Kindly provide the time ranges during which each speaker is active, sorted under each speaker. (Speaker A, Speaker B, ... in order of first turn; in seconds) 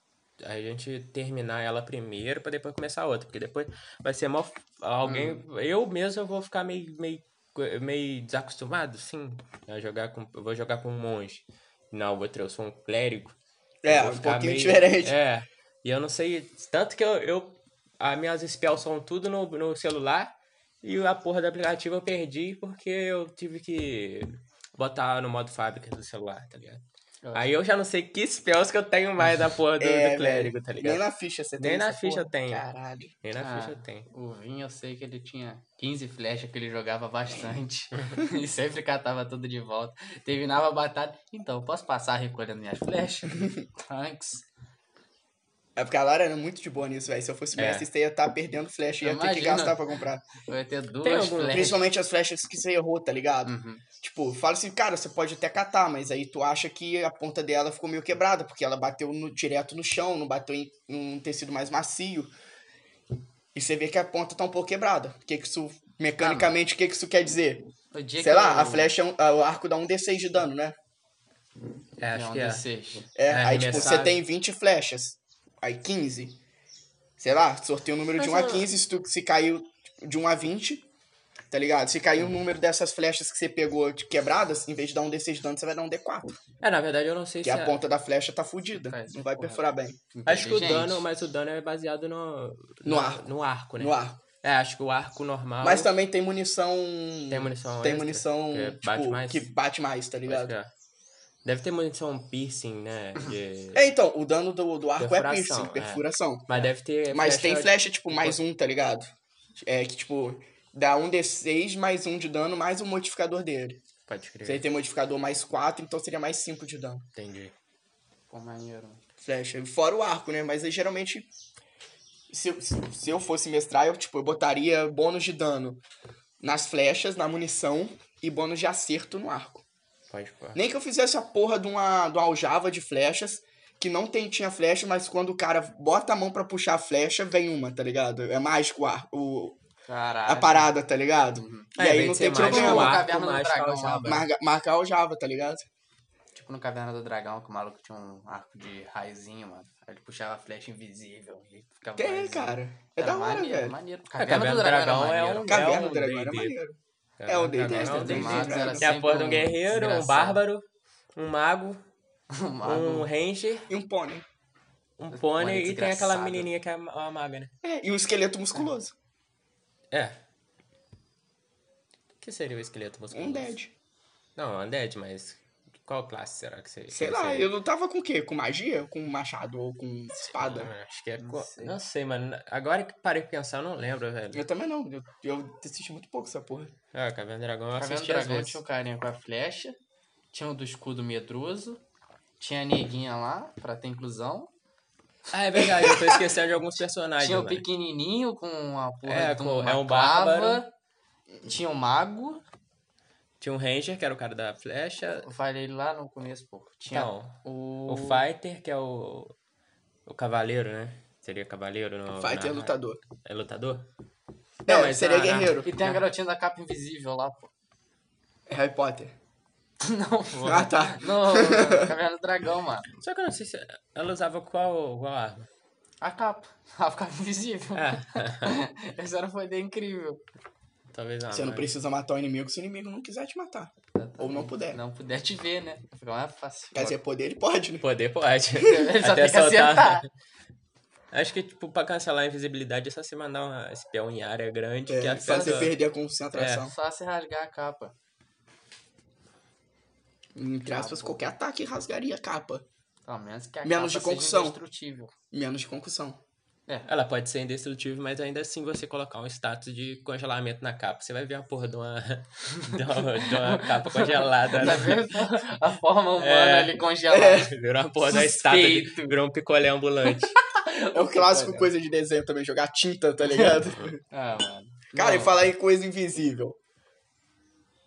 Speaker A: 0.4-13.3, 13.9-26.8, 27.3-31.0, 31.6-32.6, 33.2-34.1, 47.6-47.8, 51.0-51.8, 72.0-72.6, 73.3-74.2, 78.2-78.7, 86.6-87.8, 90.3-95.9, 97.3-99.5, 100.2-100.7, 101.4-103.9, 105.0-108.4, 114.1-114.6, 117.1-117.5, 130.1-130.6, 141.8-144.2, 154.2-156.5, 157.2-161.8, 162.6-163.7, 165.0-167.5, 169.9-170.2, 172.2-173.5, 174.3-177.5, 180.3-184.4, 186.9-188.6, 195.3-197.6, 199.0-200.6, 203.4-205.3, 206.9-209.3, 210.1-213.9, 214.7-216.0, 223.0-225.5, 227.7-228.6, 230.9-231.7, 237.8-240.1, 241.1-245.7, 246.3-246.7, 256.9-265.1, 266.2-270.4
Speaker B: 5.0-5.4, 27.2-27.5, 33.4-44.4, 49.0-49.9, 50.4-51.8, 53.5-53.8, 66.2-66.5, 67.9-68.9, 72.1-73.1, 73.7-74.1, 88.8-91.0, 118.3-119.0, 139.9-140.7, 141.3-141.7, 142.3-144.2, 146.3-155.6, 157.7-160.4, 162.3-163.1, 165.1-166.5, 181.2-181.8, 187.8-189.8, 190.3-191.8, 192.4-194.5, 197.2-200.7, 201.4-202.4, 205.1-208.2, 215.6-217.5, 219.8-222.9, 226.0-230.2, 233.9-237.0, 238.6-240.0, 245.2-245.7, 246.6-247.9, 250.7-251.2, 253.0-255.1, 262.7-267.5, 268.0-269.2, 270.4-271.7, 273.3-273.6, 274.1-275.4
Speaker C: 13.8-15.1, 29.8-33.1, 45.8-50.2, 51.5-62.3, 63.5-67.6, 68.2-70.7, 73.2-76.4, 77.2-80.8, 81.5-86.4, 87.4-90.0, 92.8-93.2, 93.8-94.2, 95.6-100.5, 103.7-113.8, 114.4-117.0, 119.2-121.3, 122.3-125.8, 126.4-129.6, 130.5-139.6, 140.2-143.0, 144.0-145.7, 152.0-153.8, 155.5-158.9, 163.7-164.2, 167.6-168.9, 173.1-173.7, 176.9-180.7, 184.3-186.7, 195.6-196.3, 212.2-213.0, 214.7-215.7, 218.5-219.1, 220.4-221.9, 231.3-234.8, 236.7-237.8, 244.9-246.7, 250.3-252.6, 253.6-254.6, 255.3-256.2, 267.1-267.5, 270.9-274.0, 274.9-276.6